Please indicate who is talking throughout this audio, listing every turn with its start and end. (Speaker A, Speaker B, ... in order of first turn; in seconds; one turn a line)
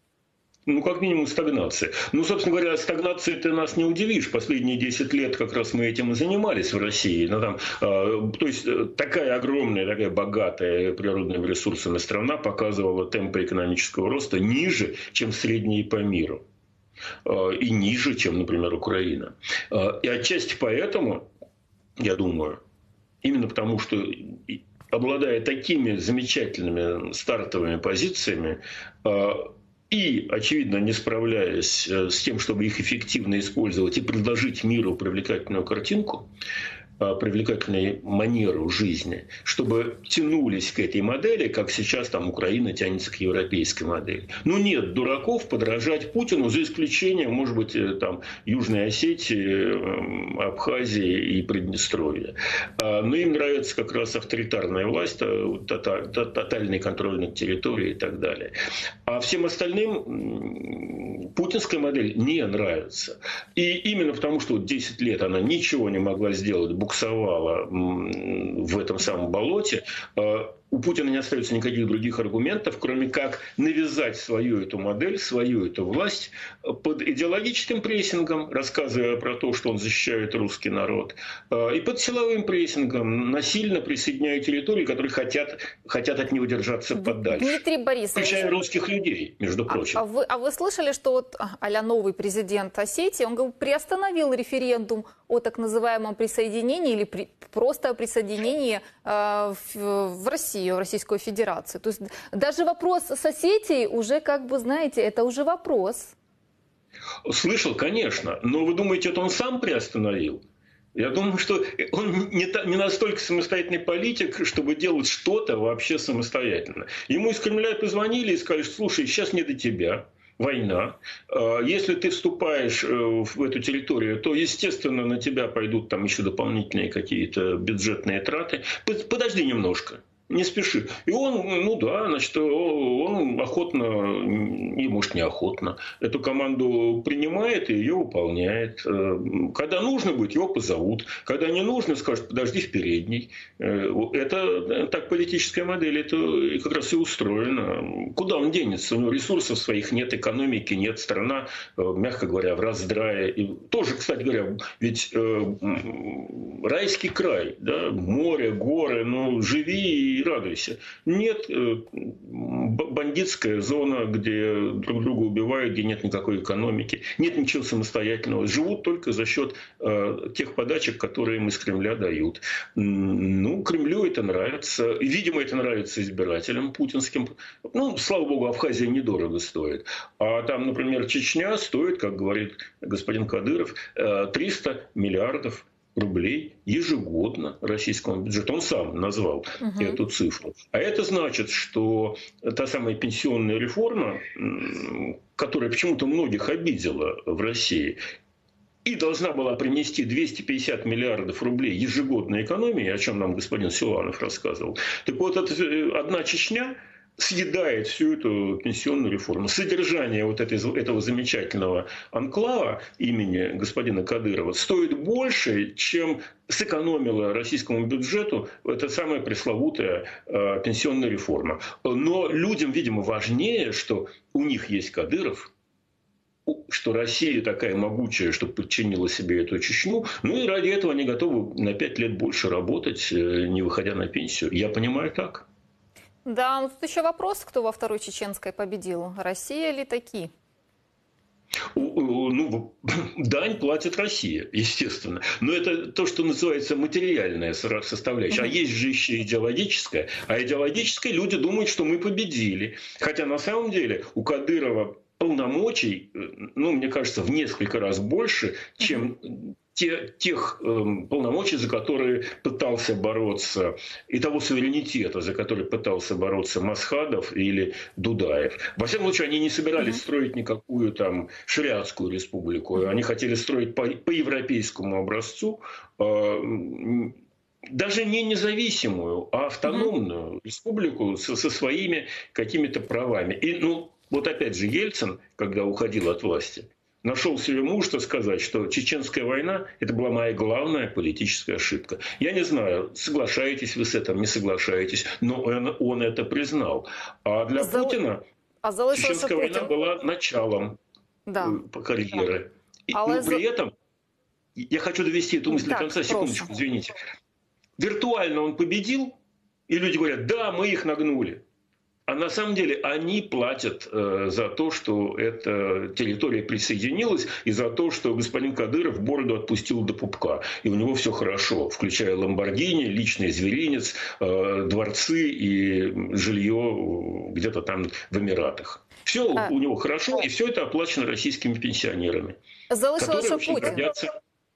Speaker A: 0.7-16.4
Speaker A: 17.2-21.3
Speaker A: 22.0-22.6
Speaker A: 23.2-36.3
Speaker A: 37.0-58.5
Speaker A: 59.0-87.6
Speaker B: 86.9-88.6
Speaker A: 88.1-90.0
Speaker B: 89.7-106.1
Speaker A: 107.2-110.4
Speaker A: 110.9-198.0
Speaker B: 189.6-190.0
Speaker A: 198.8-225.5
Speaker A: 226.5-235.4
Speaker B: 236.2-240.3
Speaker A: 241.7-277.1
Speaker A: 277.7-298.2
Speaker B: 297.6-298.0
Speaker B: 298.6-299.7
Speaker A: 298.9-300.8
Speaker B: 301.2-301.6
Speaker A: 301.4-303.7
Speaker B: 302.9-303.4
Speaker A: 304.6-306.9
Speaker B: 305.5-306.5
Speaker A: 307.8-309.2
Speaker A: 309.7-311.4
Speaker A: 312.1-332.4
Speaker B: 332.7-333.9
Speaker A: 333.0-334.1